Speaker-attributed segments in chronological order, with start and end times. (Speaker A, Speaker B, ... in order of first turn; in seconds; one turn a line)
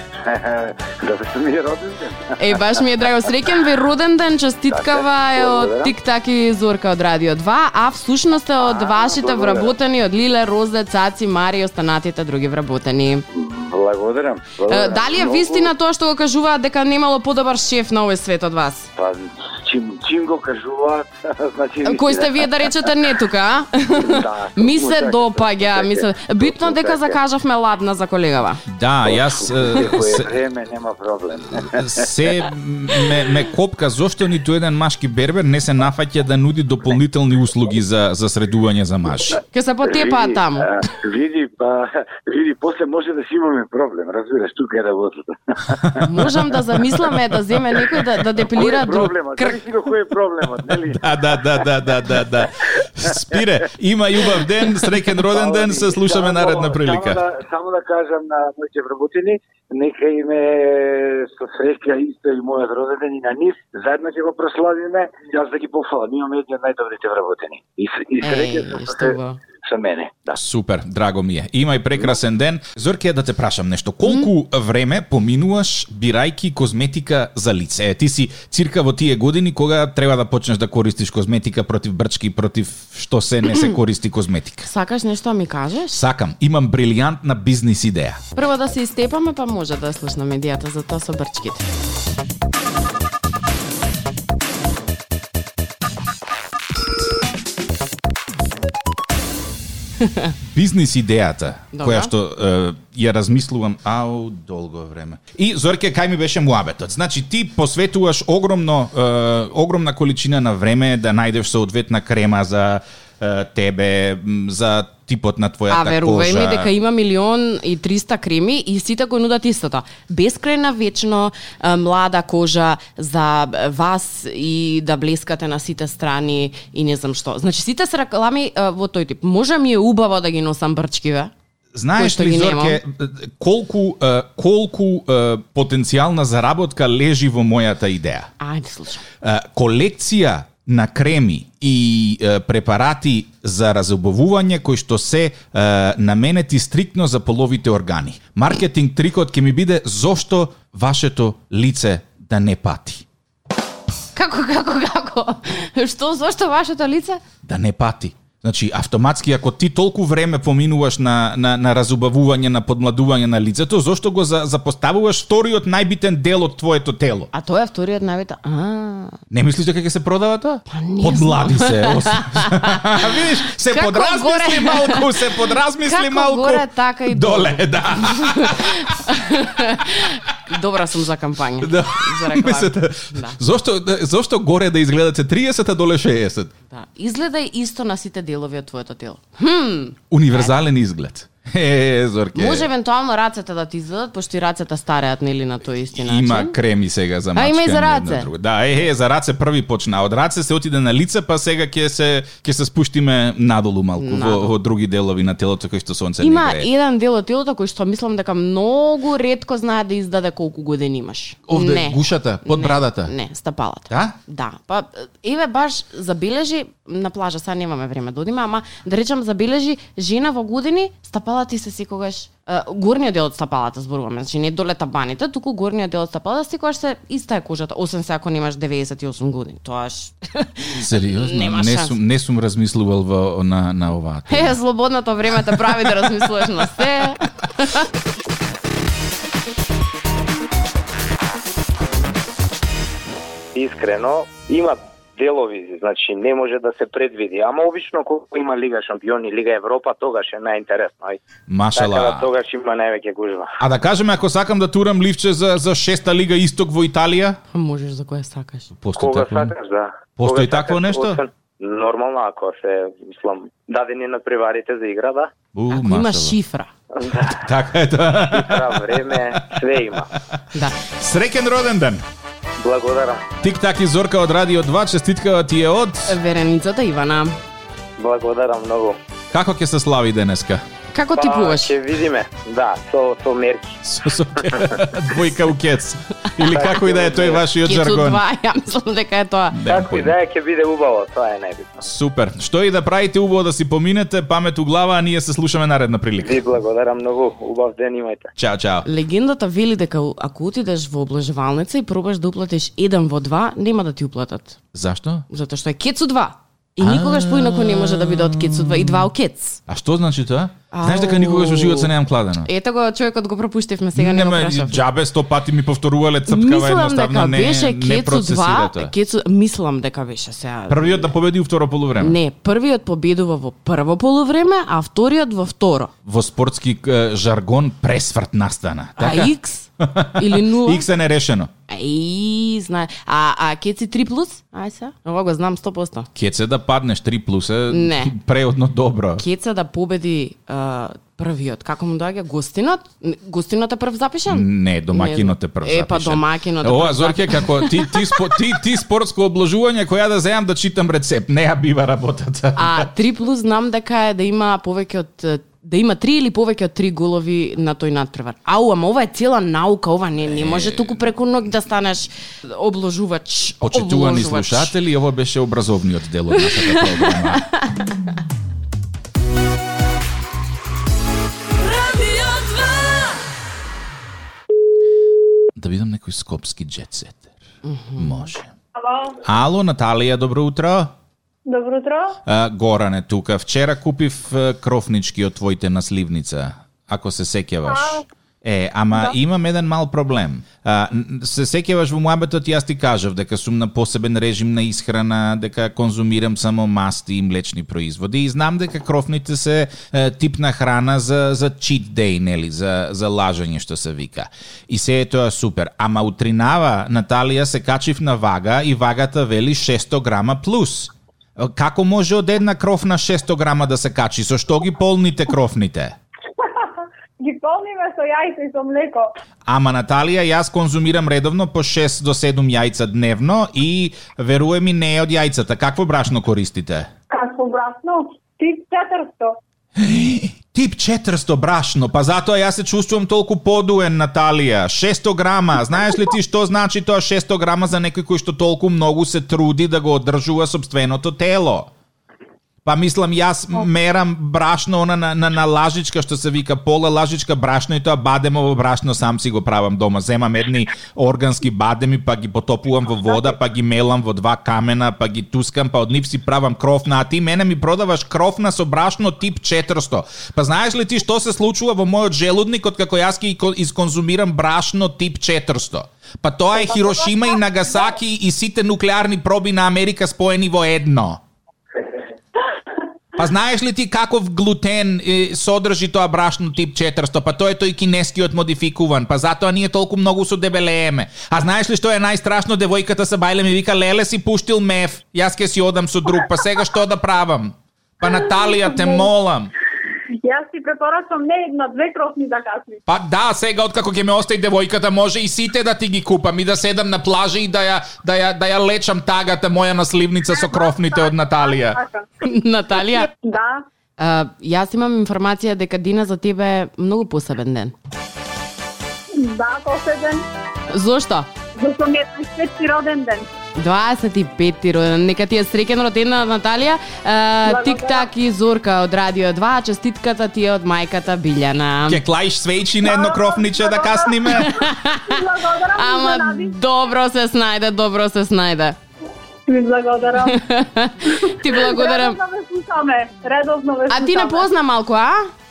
Speaker A: 0.2-2.6
Speaker B: 2.4-13.2
Speaker A: 4.7-5.9
Speaker A: 8.6-9.7
Speaker A: 13.3-15.7
Speaker B: 14.7-18.9
Speaker A: 18.9-22.7
Speaker B: 21.8-28.6
Speaker A: 23.9-27.1
Speaker C: 28.7-30.3
Speaker A: 29.0-32.1
Speaker C: 31.6-39.4
Speaker B: 39.5-40.7
Speaker A: 39.8-46.0
Speaker C: 45.8-46.2
Speaker B: 46.0-49.6
Speaker A: 48.5-51.4
Speaker C: 50.7-57.2
Speaker A: 55.1-70.4
Speaker B: 68.2-69.4
Speaker C: 70.3-84.7
Speaker B: 84.6-86.0
Speaker C: 85.9-88.2
Speaker B: 88.3-91.7
Speaker B: 100.0-100.3
Speaker C: 100.5-116.7
Speaker B: 101.7-102.1
Speaker B: 115.7-131.3
Speaker C: 131.7-138.3
Speaker B: 131.9-132.8
Speaker B: 138.4-139.0
Speaker C: 139.2-153.0
Speaker B: 154.1-157.2
Speaker C: 157.4-167.3
Speaker B: 167.3-169.2
Speaker C: 169.3-178.9
Speaker B: 170.7-175.3
Speaker B: 175.8-183.4
Speaker C: 181.6-186.5
Speaker B: 186.7-190.5
Speaker C: 190.1-192.7
Speaker B: 192.3-196.6
Speaker C: 195.9-206.7
Speaker B: 197.3-198.3
Speaker B: 204.0-204.5
Speaker B: 206.2-232.0
Speaker C: 211.5-213.1
Speaker C: 213.9-214.2
Speaker C: 230.7-234.6
Speaker B: 234.3-237.9
Speaker C: 235.4-236.2
Speaker D: 243.5-251.2
Speaker C: 251.5-252.3
Speaker D: 251.7-253.5
Speaker C: 253.6-257.4
Speaker B: 257.5-258.7
Speaker C: 258.8-259.5
Speaker D: 259.0-265.3
Speaker C: 260.2-261.2
Speaker C: 265.5-266.4
Speaker B: 265.7-266.7
Speaker D: 266.9-267.4
Speaker C: 267.3-269.4
Speaker D: 268.3-270.1
Speaker C: 270.1-272.0
Speaker D: 272.6-273.2
Speaker C: 273.4-276.2
Speaker B: 276.1-277.4
Speaker D: 278.0-279.0
Speaker C: 279.3-280.6
Speaker B: 280.9-281.7
Speaker D: 281.2-283.8
Speaker C: 283.8-288.2
Speaker D: 284.4-284.8
Speaker D: 286.4-287.4
Speaker B: 287.6-289.6
Speaker C: 289.5-290.1
Speaker D: 289.6-291.8
Speaker C: 291.8-296.4
Speaker D: 296.2-298.3
Speaker C: 298.4-298.9
Speaker B: 298.8-304.6
Speaker C: 304.7-305.2
Speaker B: 305.3-309.6
Speaker C: 306.8-309.1
Speaker C: 309.7-312.5
Speaker B: 310.7-311.9
Speaker B: 312.4-314.8
Speaker C: 313.9-318.9
Speaker B: 316.3-321.1
Speaker C: 320.7-322.2
Speaker B: 322.0-325.9
Speaker C: 326.0-331.5
Speaker B: 329.0-330.9
Speaker B: 331.7-336.1
Speaker C: 336.1-339.2
Speaker B: 337.7-338.1
Speaker B: 339.2-348.4
Speaker C: 344.3-352.9
Speaker B: 352.5-364.7
Speaker C: 360.3-361.0
Speaker C: 363.6-367.4
Speaker B: 366.4-367.9
Speaker C: 375.5-377.4
Speaker B: 377.6-378.3
Speaker C: 378.0-378.5
Speaker E: 378.8-379.1
Speaker C: 379.2-380.9
Speaker E: 381.4-382.2
Speaker C: 382.3-415.9
Speaker E: 387.7-388.0
Speaker E: 417.2-419.1
Speaker C: 419.5-426.9
Speaker E: 427.1-429.4
Speaker C: 429.8-441.7
Speaker C: 442.6-471.2
Speaker C: 473.2-489.5
Speaker E: 488.4-489.1
Speaker E: 490.2-492.8
Speaker C: 492.9-501.8
Speaker E: 500.3-502.1
Speaker B: 502.2-503.1
Speaker E: 502.8-503.6
Speaker B: 504.0-507.7
Speaker E: 509.1-510.2
Speaker B: 510.7-511.3
Speaker E: 511.6-513.3
Speaker B: 513.5-522.0
Speaker E: 517.4-518.1
Speaker C: 521.9-524.6
Speaker E: 522.8-526.6
Speaker B: 524.3-528.8
Speaker E: 529.5-530.4
Speaker B: 530.2-532.2
Speaker E: 531.2-534.5
Speaker B: 533.9-535.3